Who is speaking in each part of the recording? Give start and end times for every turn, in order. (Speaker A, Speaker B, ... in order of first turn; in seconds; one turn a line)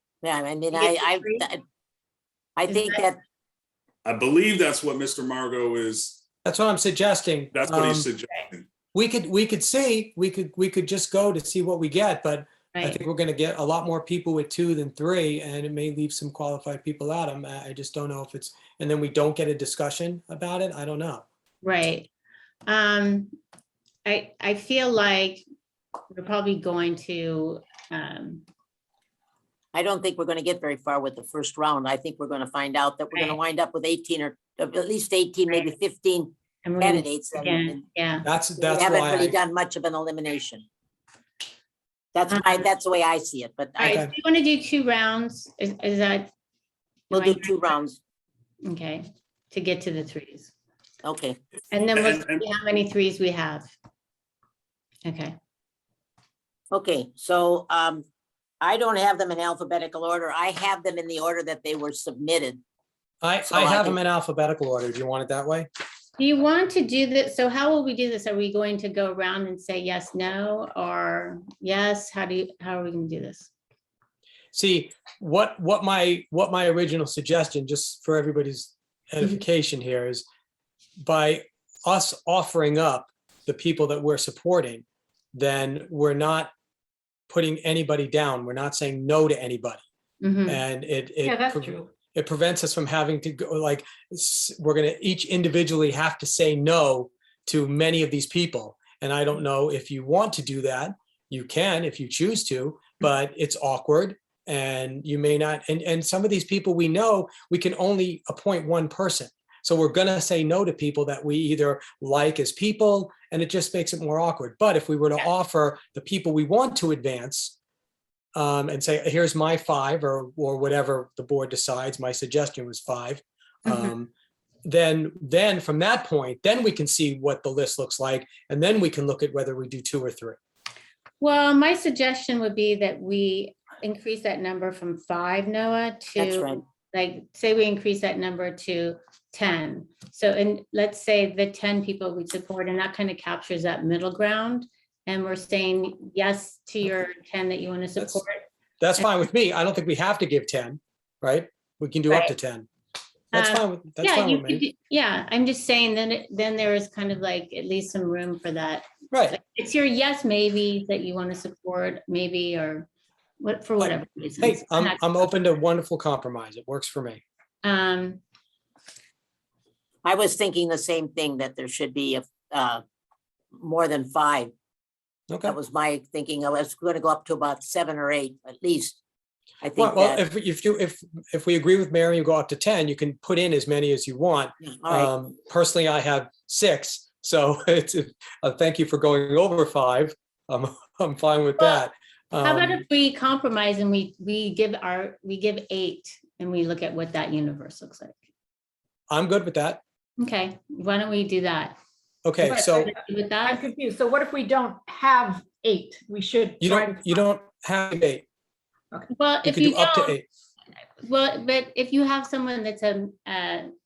Speaker A: 0.2-1.6
Speaker B: 0.7-1.5
Speaker A: 2.6-3.2
Speaker B: 2.7-3.1
Speaker C: 4.0-6.1
Speaker D: 6.4-8.1
Speaker C: 7.5-8.6
Speaker D: 8.9-21.2
Speaker B: 12.7-13.0
Speaker B: 21.6-22.1
Speaker B: 22.7-23.3
Speaker B: 24.0-25.4
Speaker B: 26.1-28.4
Speaker A: 29.7-37.8
Speaker B: 36.6-38.2
Speaker D: 38.2-39.4
Speaker A: 38.6-40.6
Speaker A: 42.1-44.0
Speaker B: 42.3-42.7
Speaker B: 43.8-46.3
Speaker D: 43.8-44.1
Speaker B: 47.1-47.7
Speaker A: 47.1-48.0
Speaker B: 48.6-50.5
Speaker A: 51.0-51.4
Speaker B: 51.7-53.7
Speaker C: 51.9-52.4
Speaker B: 55.0-55.4
Speaker A: 56.7-58.0
Speaker A: 58.6-62.6
Speaker D: 63.2-65.7
Speaker A: 63.5-64.0
Speaker B: 66.2-73.5
Speaker D: 74.5-80.2
Speaker D: 81.0-86.5
Speaker D: 87.3-89.8
Speaker B: 90.2-90.6
Speaker D: 90.5-117.5
Speaker E: 91.2-91.9
Speaker D: 118.3-124.1
Speaker D: 124.6-130.4
Speaker B: 131.2-148.4
Speaker A: 136.2-136.6
Speaker D: 148.8-152.7
Speaker D: 153.3-154.6
Speaker B: 153.3-162.9
Speaker D: 159.1-159.4
Speaker B: 163.4-165.3
Speaker D: 163.8-167.2
Speaker B: 167.6-168.2
Speaker A: 170.0-172.8
Speaker A: 173.5-174.5
Speaker D: 175.3-175.6
Speaker A: 175.4-179.0
Speaker A: 179.6-180.2
Speaker D: 179.8-192.8
Speaker A: 184.6-185.1
Speaker B: 191.6-191.8
Speaker B: 192.4-198.2
Speaker D: 199.1-199.8
Speaker B: 200.2-201.8
Speaker D: 202.2-202.9
Speaker E: 202.4-207.2
Speaker B: 202.5-203.6
Speaker D: 206.6-208.2
Speaker B: 209.1-210.2
Speaker D: 209.4-210.2
Speaker B: 211.0-213.7